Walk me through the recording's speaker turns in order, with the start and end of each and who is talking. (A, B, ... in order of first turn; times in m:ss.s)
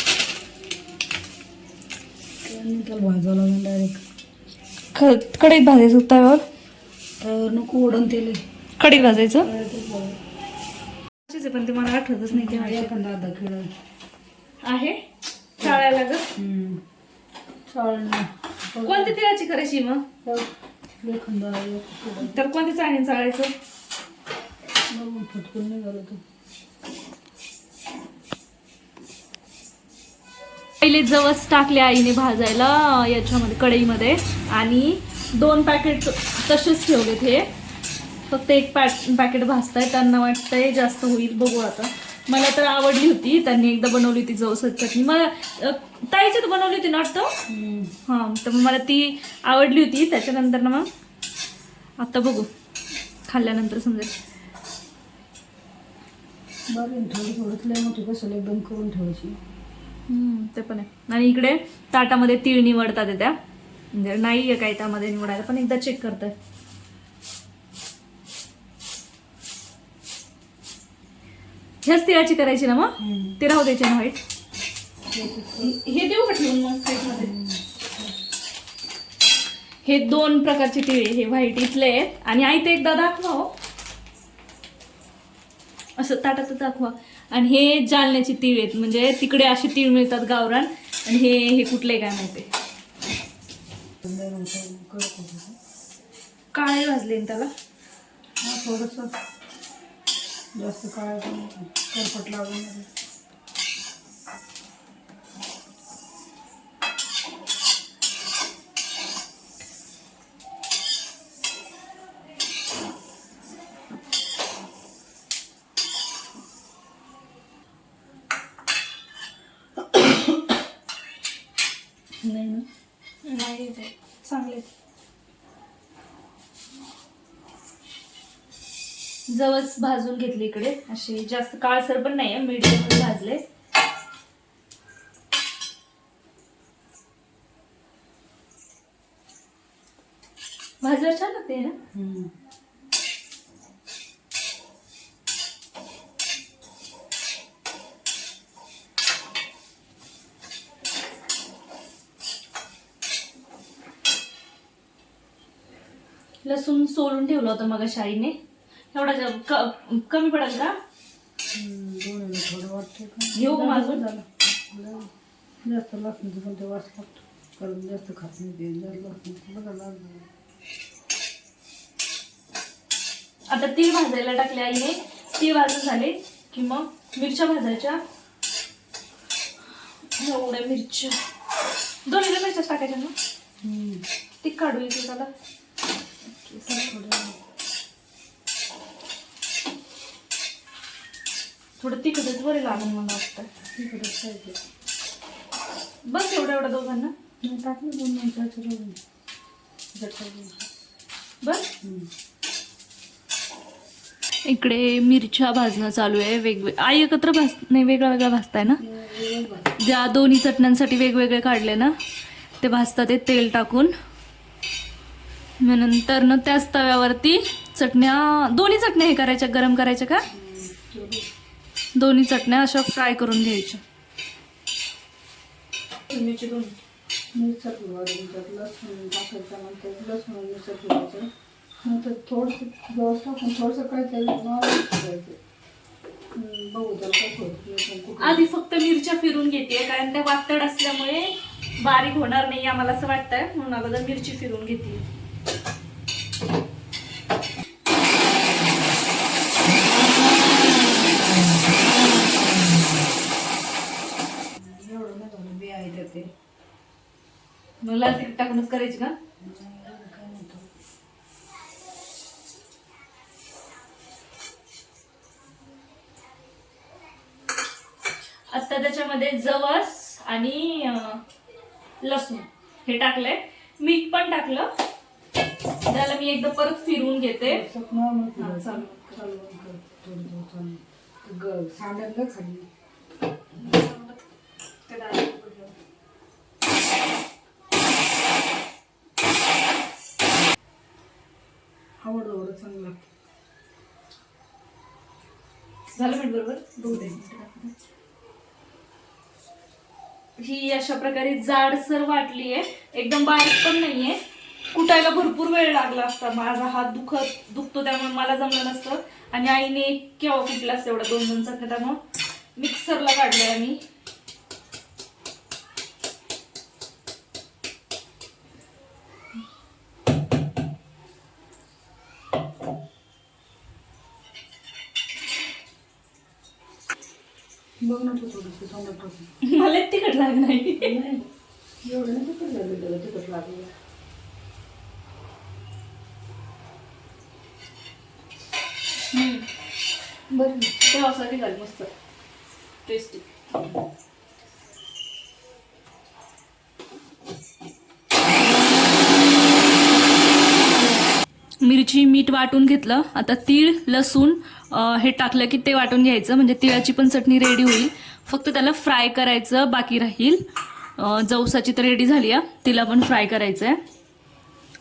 0:02.4-0:04.0 A
0:04.9-0:06.4 B
0:07.2-0:08.4 A
0:08.8-0:09.5 B
0:08.9-0:10.2 A
0:11.3-0:13.0 B
0:12.3-0:13.7 A
0:14.6-0:15.0 B
0:15.6-0:16.3 B
0:16.4-0:16.8 A
0:17.7-0:19.2 A
0:18.8-0:20.0 B
0:21.0-0:22.4 A
0:22.2-0:23.5 B
0:24.9-0:26.2 A
0:30.8-0:37.5 B
0:38.3-0:47.3 B
0:47.5-0:47.9 A
0:48.1-0:50.9 B
0:52.0-0:52.5 B
0:53.3-0:54.1 B
0:56.7-0:59.4 A
1:00.1-1:03.4 B
1:03.9-1:06.3 B
1:11.8-1:14.2 B
1:13.0-1:13.4 A
1:15.1-1:15.8 A
1:15.6-1:17.3 B
1:17.1-1:18.1 A
1:19.8-1:23.5 B
1:26.0-1:32.5 B
1:34.0-1:35.6 A
1:36.5-1:37.5 B
1:38.4-1:39.2 A
1:40.5-1:42.9 A
2:02.2-2:02.6 A
2:03.2-2:04.7 B
2:09.3-2:13.4 B
2:20.8-2:21.8 B
2:21.9-2:22.3 A
2:36.4-2:38.3 B
2:38.9-2:40.8 B
2:41.5-2:45.1 A
2:43.3-2:44.0 B
2:45.6-2:50.3 A
2:53.5-2:58.0 B
3:00.2-3:01.2 B
3:02.0-3:03.1 B
3:03.6-3:04.0 A
3:04.4-3:05.3 B
3:06.3-3:06.7 B
3:06.6-3:07.4 A
3:11.8-3:13.5 B
3:13.7-3:14.6 A
3:16.1-3:17.1 B
3:17.4-3:19.0 A
3:19.9-3:20.7 A
3:21.8-3:22.1 A
3:24.5-3:28.8 B
3:28.8-3:29.7 A
3:29.8-3:31.9 B
3:32.6-3:33.9 B
3:35.6-3:40.2 B
3:40.3-3:41.2 A
3:42.0-3:43.8 B
3:46.1-3:46.7 B
3:47.3-3:51.3 A
3:51.8-3:55.4 A
3:56.3-3:58.4 A
3:58.2-4:05.0 B
4:09.8-4:12.8 B
4:14.6-4:16.3 A
4:17.8-4:19.1 B
4:19.4-4:20.7 A
4:28.5-4:31.2 B
4:32.0-4:34.7 B
4:35.8-4:37.6 B
4:37.4-4:42.7 A
4:38.4-4:39.2 B
4:43.6-4:44.2 B
4:44.9-4:45.7 A
4:52.0-4:53.1 A
4:55.9-4:57.7 B
4:56.8-4:57.2 A
5:00.4-5:04.2 B
5:04.7-5:12.0 B
5:12.6-5:13.8 B
5:27.8-5:29.3 A
5:29.4-5:31.0 B
5:30.8-5:31.2 A
5:31.8-5:33.7 A
5:39.1-5:39.4 B
5:40.3-5:40.8 A
5:40.8-5:41.9 B
5:42.8-5:43.2 B
5:50.8-5:51.1 B
5:51.6-6:00.4 B
6:01.0-6:03.8 B